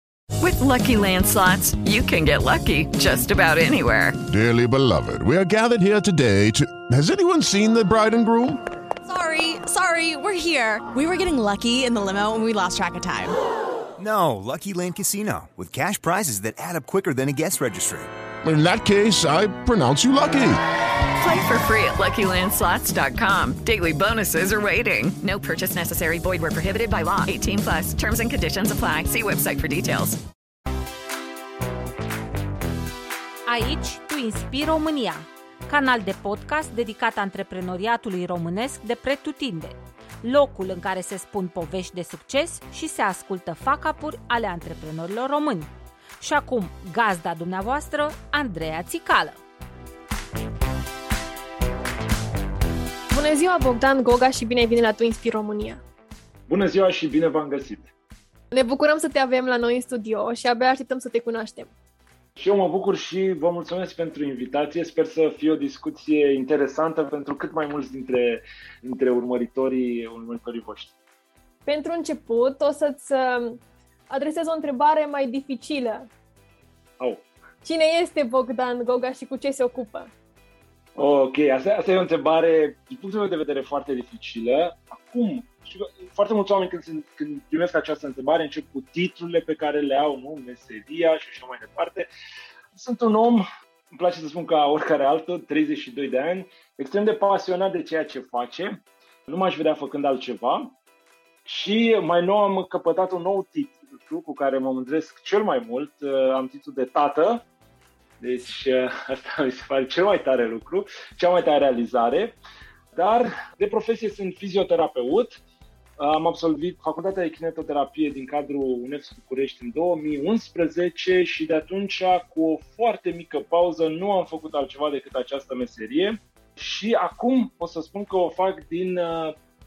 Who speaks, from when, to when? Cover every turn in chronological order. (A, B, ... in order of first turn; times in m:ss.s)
0:00.4-0:04.2 A
0:04.3-0:08.6 B
0:09.0-0:13.3 C
0:14.0-0:18.1 D
0:18.4-0:20.6 B
0:21.2-0:30.2 A
0:33.5-0:49.4 E
0:53.1-0:55.8 F
0:56.5-0:57.9 G
0:58.5-1:01.7 F
1:02.4-1:11.0 G
1:11.6-1:16.1 F
1:17.0-1:17.3 G
1:17.6-1:20.1 F
1:21.0-1:32.1 G
1:32.7-1:40.7 G
1:41.4-1:47.4 G
1:48.2-1:52.4 G
1:52.9-1:55.4 G
1:56.0-2:09.4 G